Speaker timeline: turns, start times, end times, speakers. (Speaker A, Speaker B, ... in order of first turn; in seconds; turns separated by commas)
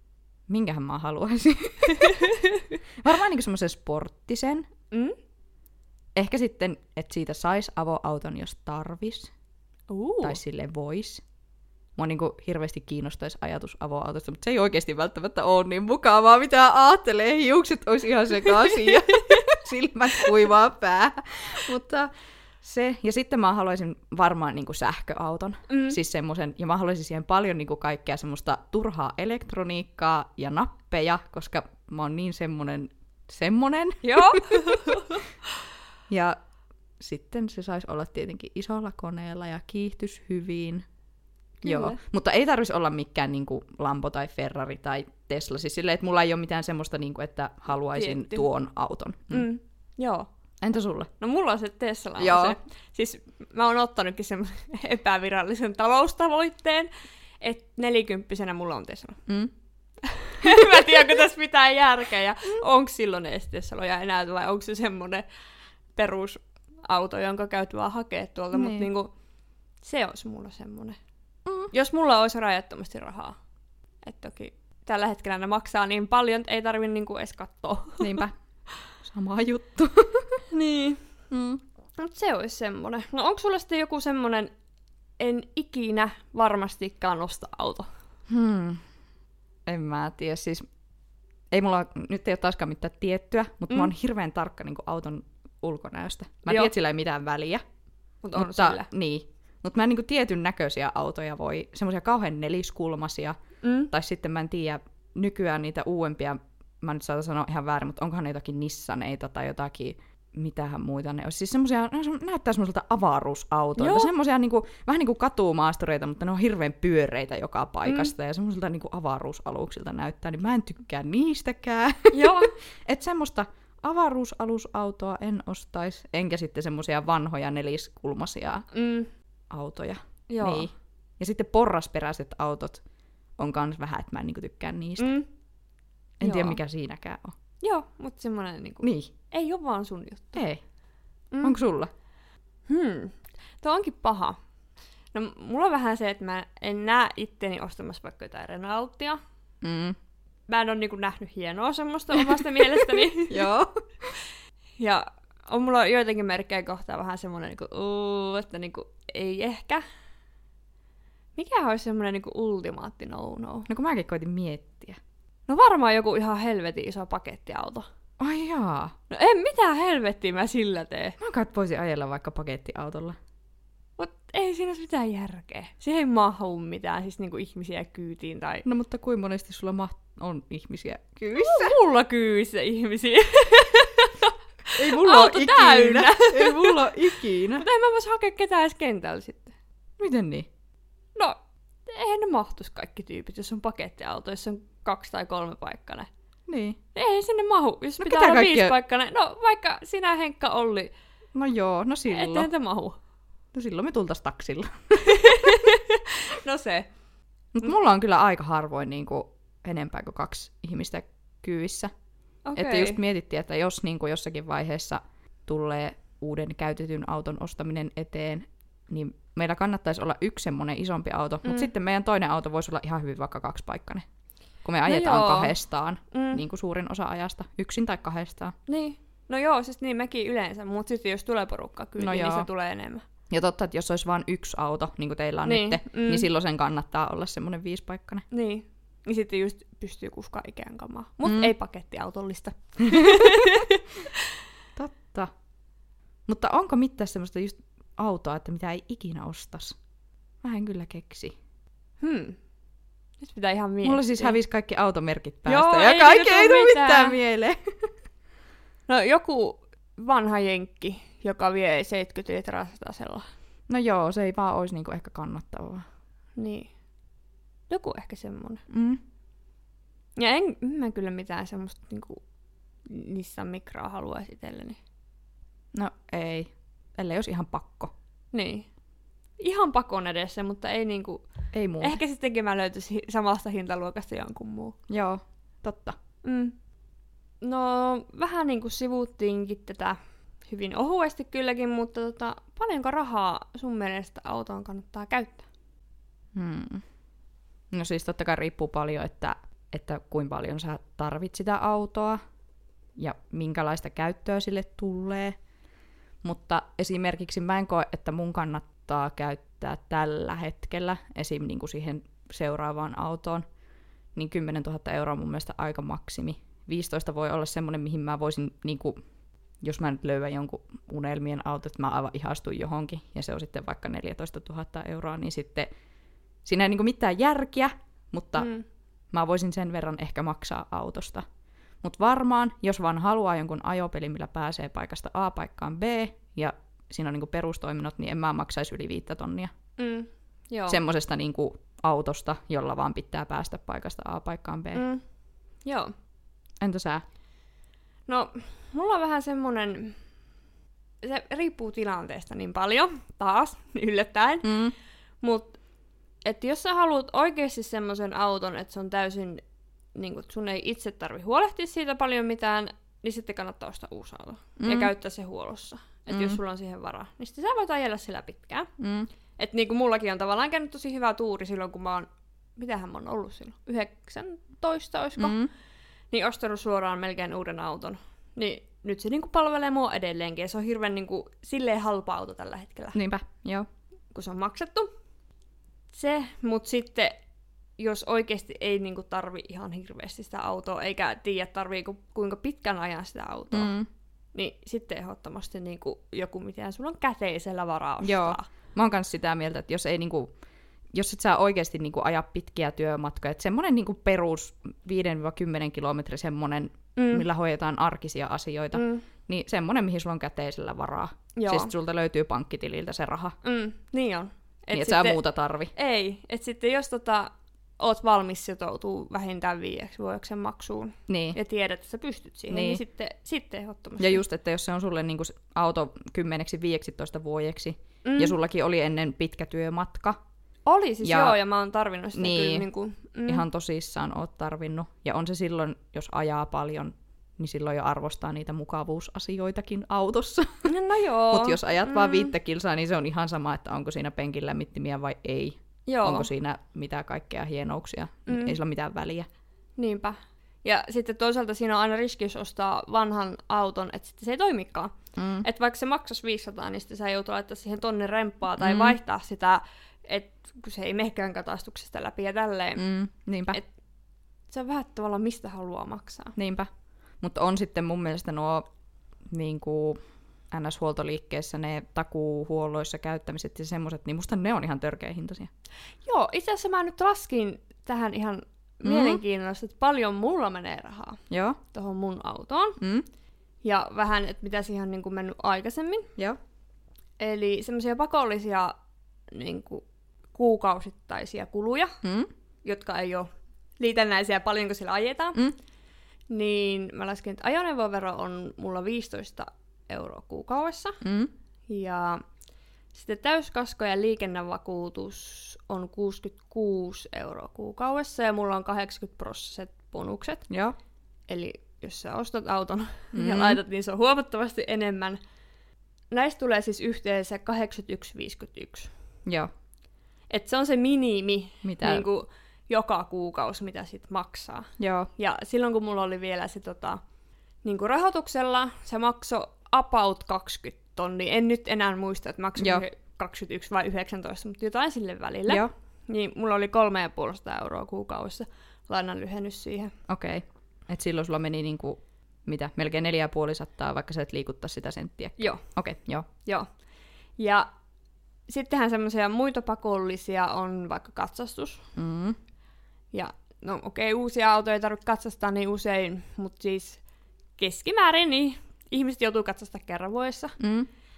Speaker A: 0.5-2.3, Speaker B: 2.0-2.6, Speaker A: 3.0-4.7, Speaker A: 6.2-9.3, Speaker B: 9.9-10.4, Speaker A: 10.2-11.2, Speaker A: 12.0-22.1, Speaker B: 19.1-19.4, Speaker A: 22.6-35.2, Speaker B: 25.7-26.0, Speaker B: 34.0-35.2, Speaker A: 36.1-36.4, Speaker A: 37.0-40.9, Speaker B: 41.6-42.0, Speaker A: 41.6-49.5, Speaker B: 47.9-48.5, Speaker B: 49.3-50.3, Speaker A: 50.6-51.1, Speaker B: 51.2-56.9, Speaker A: 52.2-52.6, Speaker B: 57.4-59.2, Speaker A: 59.3-59.5, Speaker B: 60.0-65.2, Speaker A: 60.4-60.9, Speaker B: 66.0-69.1, Speaker A: 68.5-68.9, Speaker B: 69.8-71.0, Speaker B: 71.7-73.3, Speaker B: 74.0-78.2, Speaker A: 78.0-78.4, Speaker A: 79.0-80.4, Speaker B: 80.5-81.0, Speaker A: 81.3-81.6, Speaker B: 82.0-84.5, Speaker B: 85.2-87.9, Speaker A: 88.3-88.8, Speaker A: 89.7-90.7, Speaker A: 91.5-97.6, Speaker B: 98.2-98.9, Speaker A: 98.3-103.4, Speaker B: 103.6-103.9, Speaker A: 103.9-128.7, Speaker B: 113.8-114.1, Speaker B: 117.9-118.1, Speaker B: 122.1-122.5, Speaker B: 128.7-129.1, Speaker A: 129.5-132.8, Speaker B: 130.3-130.7, Speaker A: 133.4-135.2, Speaker B: 135.0-135.3, Speaker A: 136.2-137.3, Speaker B: 136.2-136.6, Speaker B: 137.6-140.4, Speaker A: 138.8-139.1, Speaker A: 140.3-140.6, Speaker B: 141.3-141.6, Speaker A: 141.4-141.9, Speaker B: 142.7-144.4, Speaker B: 145.1-149.2, Speaker A: 149.6-150.0, Speaker B: 150.5-153.4, Speaker A: 152.2-154.2, Speaker B: 154.8-159.8, Speaker B: 161.4-163.7, Speaker A: 163.7-165.0, Speaker B: 165.5-167.9, Speaker A: 168.2-168.9, Speaker B: 169.1-171.2, Speaker A: 171.2-173.2, Speaker B: 174.0-178.6, Speaker A: 178.6-181.8, Speaker B: 181.3-189.5, Speaker A: 184.8-187.7, Speaker A: 190.0-190.5, Speaker B: 191.2-196.1, Speaker A: 196.5-196.8, Speaker B: 196.9-200.9, Speaker A: 198.0-198.7, Speaker A: 201.3-202.5, Speaker B: 202.1-203.0, Speaker A: 203.5-205.6, Speaker B: 205.0-206.9, Speaker A: 207.6-211.9, Speaker B: 212.5-213.0, Speaker A: 212.6-224.0, Speaker B: 221.4-221.7, Speaker A: 224.6-228.6, Speaker B: 224.9-225.5, Speaker B: 226.1-226.4, Speaker B: 228.7-233.0, Speaker A: 232.0-232.5, Speaker A: 233.3-238.2, Speaker B: 235.4-236.3, Speaker B: 238.3-243.8, Speaker A: 241.2-241.5, Speaker A: 242.9-243.7, Speaker A: 244.8-245.3, Speaker A: 246.3-249.8, Speaker A: 250.4-251.3, Speaker B: 252.0-252.4, Speaker B: 253.2-254.4, Speaker A: 253.8-257.7, Speaker B: 255.5-257.2, Speaker B: 258.9-263.2, Speaker A: 263.7-265.9, Speaker B: 266.4-266.7, Speaker B: 267.7-268.6, Speaker A: 268.7-269.0, Speaker B: 270.2-272.2, Speaker B: 272.9-274.8, Speaker A: 275.7-277.9, Speaker B: 278.3-278.7, Speaker B: 279.4-281.3, Speaker A: 281.5-282.0, Speaker B: 281.8-284.8, Speaker A: 284.9-286.0, Speaker B: 286.2-286.5, Speaker B: 287.4-295.5, Speaker A: 296.3-296.8, Speaker A: 297.7-302.2, Speaker A: 303.0-305.4, Speaker A: 306.2-313.4, Speaker A: 314.1-319.0, Speaker A: 319.6-325.7, Speaker A: 326.4-328.5, Speaker B: 328.4-328.6, Speaker A: 329.1-331.2, Speaker A: 331.8-339.5, Speaker B: 339.8-340.8, Speaker A: 340.7-344.9, Speaker B: 344.7-345.0, Speaker B: 345.6-345.9, Speaker A: 346.6-347.0, Speaker B: 348.1-350.0, Speaker B: 351.0-354.5, Speaker A: 354.4-354.7, Speaker B: 355.2-355.6, Speaker B: 356.2-359.4, Speaker B: 359.9-368.7, Speaker A: 364.6-364.9, Speaker A: 366.1-366.4, Speaker A: 368.8-369.1, Speaker B: 369.4-375.4, Speaker A: 375.2-375.5, Speaker B: 376.1-383.0, Speaker A: 382.9-383.7, Speaker B: 384.1-384.9, Speaker B: 385.9-387.2, Speaker B: 387.8-393.7, Speaker A: 393.5-393.9, Speaker B: 394.4-398.5, Speaker A: 398.0-400.3, Speaker A: 400.9-413.4, Speaker B: 407.0-407.2, Speaker B: 408.8-409.1, Speaker B: 411.4-411.7, Speaker B: 413.4-415.2, Speaker A: 414.7-415.7, Speaker B: 415.7-424.2, Speaker A: 421.1-421.4, Speaker A: 422.5-422.8, Speaker A: 424.0-430.2, Speaker B: 428.1-428.4, Speaker B: 430.7-433.4, Speaker A: 431.0-431.4, Speaker A: 432.1-432.7, Speaker A: 433.3-440.7, Speaker B: 440.6-442.3, Speaker A: 441.3-449.3, Speaker B: 445.9-446.3, Speaker B: 448.3-448.6, Speaker B: 449.8-462.9, Speaker A: 455.2-455.5, Speaker A: 458.6-459.0, Speaker A: 462.8-463.6, Speaker B: 464.5-466.4, Speaker A: 466.4-466.7, Speaker A: 467.2-468.6, Speaker A: 469.3-470.0, Speaker A: 470.5-475.5, Speaker B: 476.1-481.2, Speaker A: 478.8-479.2, Speaker A: 481.3-481.6, Speaker B: 481.7-482.8, Speaker A: 482.8-483.1, Speaker B: 483.6-486.1, Speaker B: 487.2-488.8, Speaker B: 489.3-489.8, Speaker B: 490.3-492.0, Speaker A: 492.0-492.3, Speaker B: 492.6-495.4, Speaker B: 496.3-501.0, Speaker A: 501.0-501.3, Speaker B: 501.7-502.2, Speaker B: 502.9-510.5, Speaker A: 510.5-510.8, Speaker B: 511.3-515.2, Speaker A: 513.1-513.6, Speaker B: 516.1-518.9, Speaker B: 520.3-527.0, Speaker A: 521.6-522.1, Speaker A: 524.8-525.1, Speaker B: 527.6-539.9, Speaker A: 532.6-532.8, Speaker A: 540.1-546.3, Speaker B: 545.4-545.6, Speaker B: 547.4-547.7, Speaker B: 548.5-551.9, Speaker A: 552.0-552.4, Speaker B: 553.1-557.0, Speaker B: 557.6-560.6, Speaker A: 560.6-560.9